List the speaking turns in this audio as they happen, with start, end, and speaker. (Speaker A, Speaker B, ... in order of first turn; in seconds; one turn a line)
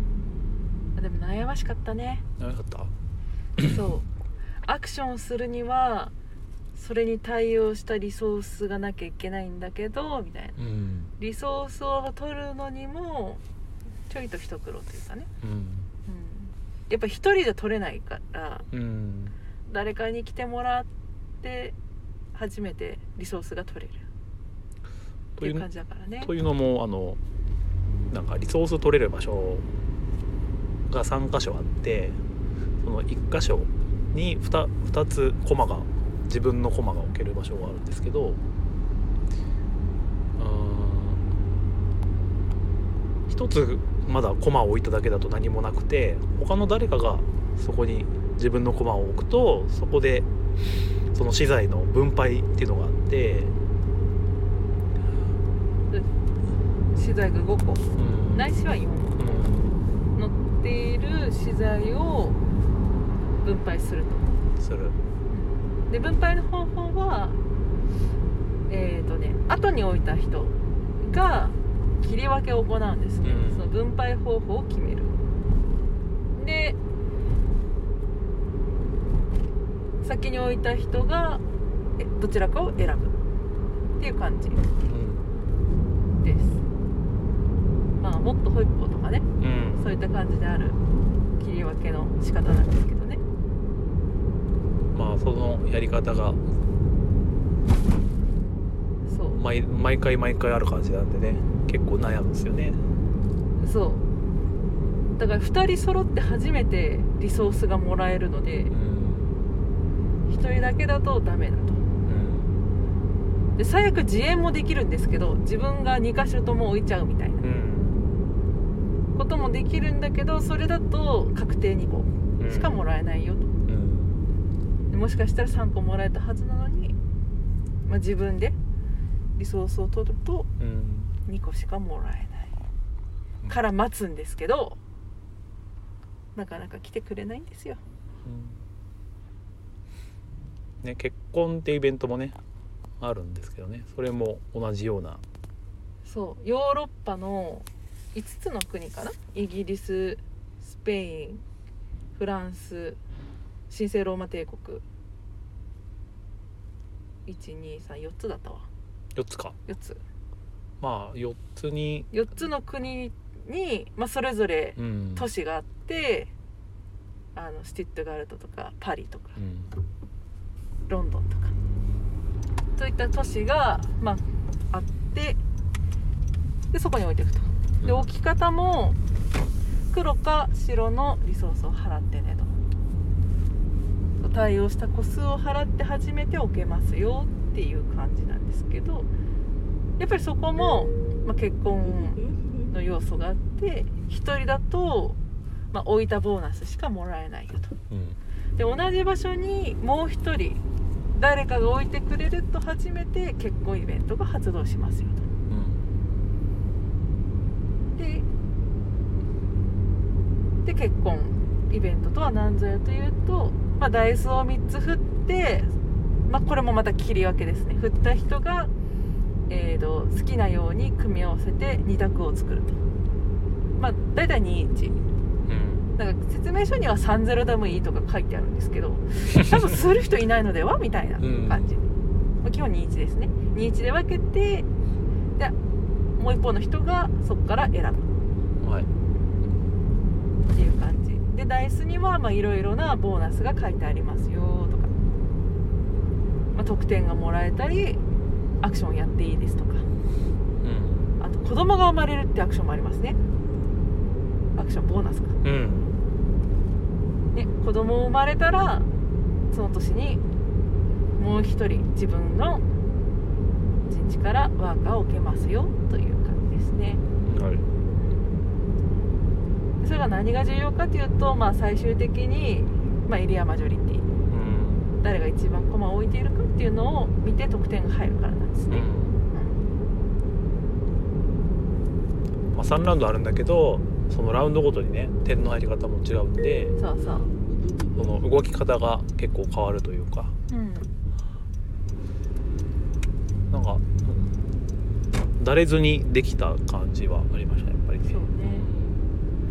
Speaker A: 1.0-2.2
Speaker B: 2.4-2.9
Speaker A: 3.6-4.1
Speaker A: 4.7-6.1
Speaker A: 6.8-10.6
Speaker B: 10.6-11.1
Speaker A: 11.2-13.4
Speaker A: 14.1-15.3
Speaker B: 15.4-15.9
Speaker A: 16.1-18.7
Speaker B: 18.7-19.4
Speaker A: 19.7-20.9
Speaker A: 21.4-21.8
Speaker A: 22.3-24.0
Speaker B: 25.4-25.7
Speaker A: 25.4-26.3
Speaker B: 26.2-27.2
Speaker B: 28.1-29.6
Speaker B: 30.9-32.2
Speaker B: 32.8-38.4
Speaker B: 40.4-41.2
Speaker B: 43.3-50.3
Speaker B: 51.1-53.5
Speaker A: 56.9-59.4
Speaker B: 58.0-58.5
Speaker B: 59.2-59.8
Speaker A: 60.2-62.4
Speaker A: 63.4-64.3
Speaker B: 64.6-65.0
Speaker A: 65.3-67.4
Speaker A: 68.7-75.1
Speaker B: 73.2-73.7
Speaker A: 76.4-76.8
Speaker A: 80.0-81.4
Speaker A: 82.0-83.2
Speaker A: 84.0-84.7
Speaker B: 84.9-85.2
Speaker A: 86.2-86.6
Speaker A: 88.0-90.8
Speaker B: 89.4-89.9
Speaker A: 91.4-93.2
Speaker B: 94.9-96.4
Speaker A: 99.1-99.4
Speaker B: 99.4-102.8
Speaker A: 103.6-104.0
Speaker A: 105.2-108.7
Speaker B: 108.7-109.3
Speaker A: 110.3-111.8
Speaker B: 112.1-112.5
Speaker A: 113.6-117.5
Speaker B: 117.4-118.1
Speaker A: 119.2-123.5
Speaker B: 122.4-122.8
Speaker B: 123.7-124.2
Speaker A: 124.9-127.0
Speaker A: 127.9-128.6
Speaker A: 129.4-130.5
Speaker B: 130.6-131.2
Speaker A: 131.3-132.5
Speaker A: 133.5-134.8
Speaker A: 136.3-137.8
Speaker B: 138.2-138.6
Speaker B: 140.8-142.4
Speaker B: 143.0-145.2
Speaker A: 146.1-151.4
Speaker A: 152.2-153.0
Speaker A: 153.7-154.8
Speaker A: 157.3-158.7
Speaker B: 159.2-159.6
Speaker A: 159.7-160.0
Speaker B: 160.8-162.1
Speaker A: 162.1-166.3
Speaker B: 164.8-165.3
Speaker A: 167.3-169.4
Speaker B: 169.4-169.7
Speaker A: 170.9-171.5
Speaker A: 172.8-175.4
Speaker A: 176.7-179.0
Speaker B: 177.8-178.1
Speaker A: 179.9-182.5
Speaker A: 184.2-189.1
Speaker A: 190.0-195.2
Speaker A: 195.7-197.8
Speaker B: 197.9-198.2
Speaker A: 198.6-200.6
Speaker A: 201.1-205.3
Speaker B: 205.5-205.9
Speaker A: 207.9-208.3
Speaker A: 210.7-215.7
Speaker A: 216.3-218.7
Speaker A: 219.5-222.8
Speaker A: 223.8-225.0
Speaker B: 225.5-225.9
Speaker A: 226.0-231.8
Speaker B: 229.2-229.7
Speaker B: 231.2-231.7
Speaker A: 232.4-234.7
Speaker A: 236.2-238.1
Speaker B: 238.6-238.9
Speaker A: 240.5-244.9
Speaker A: 246.5-248.0
Speaker A: 248.6-249.9
Speaker B: 250.6-251.1
Speaker A: 251.2-253.2
Speaker A: 254.6-255.4
Speaker B: 255.4-255.9
Speaker A: 257.3-258.9
Speaker A: 259.5-260.2
Speaker A: 261.2-262.6
Speaker A: 263.9-267.0
Speaker B: 267.2-267.7
Speaker A: 269.8-274.1
Speaker B: 274.3-274.9
Speaker A: 275.0-279.6
Speaker B: 278.7-279.2
Speaker B: 282.5-286.8
Speaker A: 286.8-287.3
Speaker B: 287.9-290.3
Speaker A: 290.5-290.9
Speaker B: 293.5-294.3
Speaker B: 295.4-299.0
Speaker A: 298.0-298.7